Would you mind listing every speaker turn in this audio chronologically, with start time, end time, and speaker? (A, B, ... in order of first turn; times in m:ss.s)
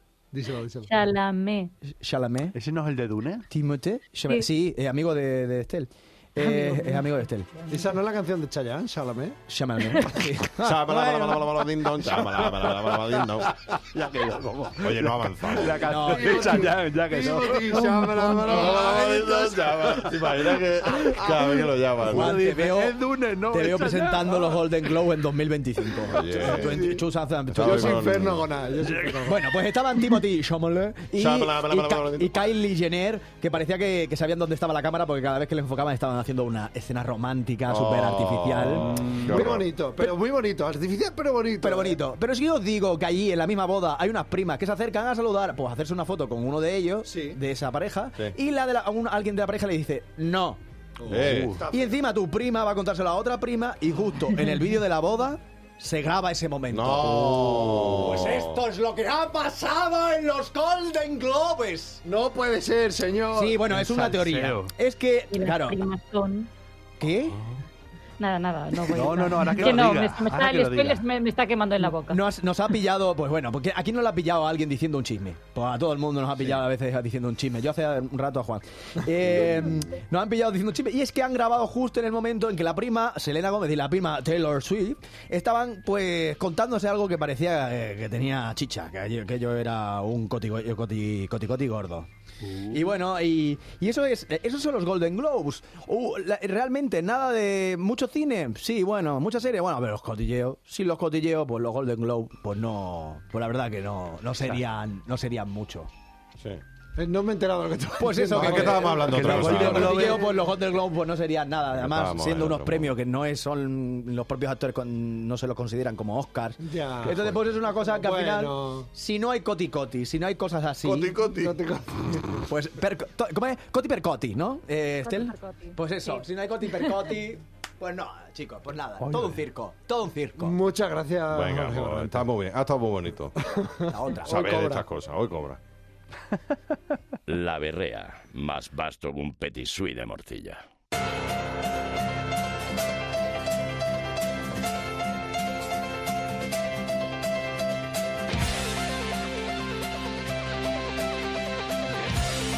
0:00.3-0:00.9 A
0:00.9-0:01.7 B
0:02.0-0:02.6 C
0:02.5-0:03.4 D
0:03.5-0:07.5 C
0:06.4-0:07.9 B
0:07.7-0:09.4 A
0:09.5-0:11.6 C
0:10.6-0:13.5 E
0:13.4-0:18.5 D
0:14.8-0:15.8 E
0:15.8-0:16.6 C
0:16.1-0:20.1 A
0:18.4-0:22.3 E
0:21.0-0:21.6 A
0:22.0-0:24.6 D
0:22.1-0:28.1 C
0:26.1-0:26.9 E
0:26.3-0:27.0 A
0:27.5-0:28.5 E
0:27.6-0:29.4 A
0:28.9-0:29.1 D
0:29.2-0:39.3 C
0:31.1-0:32.5 E
0:37.7-0:39.6 E
0:39.2-0:42.0 A
0:41.6-0:50.6 C
0:47.0-0:47.4 A
0:51.0-0:52.0 A
0:51.1-0:51.6 E
0:51.2-0:51.6 D
0:51.7-1:02.0 C
0:56.7-0:58.6 E
1:02.0-1:03.6 A
1:03.3-1:05.8 C
1:03.7-1:04.7 D
1:05.3-1:06.5 B
1:07.0-1:07.4 C
1:07.3-1:07.6 D
1:08.2-1:12.2 B
1:08.9-1:11.0 D
1:12.0-1:32.1 C
1:32.4-1:32.9 D
1:32.7-1:45.9 C
1:47.0-1:50.4 A
1:48.0-2:01.1 C
1:48.3-1:50.2 E
1:49.1-1:50.2 D
1:51.7-1:52.9 E
1:56.6-1:58.9 A
2:00.8-2:01.6 E
2:01.0-2:02.4 A
2:02.5-2:10.6 C
2:05.0-2:06.2 B
2:06.8-2:07.1 B
2:09.0-2:09.4 D
2:10.4-2:12.3 A
2:11.3-2:13.4 E
2:13.4-2:14.8 A
2:13.9-2:14.4 C
2:14.2-2:15.6 E
2:17.3-2:20.6 F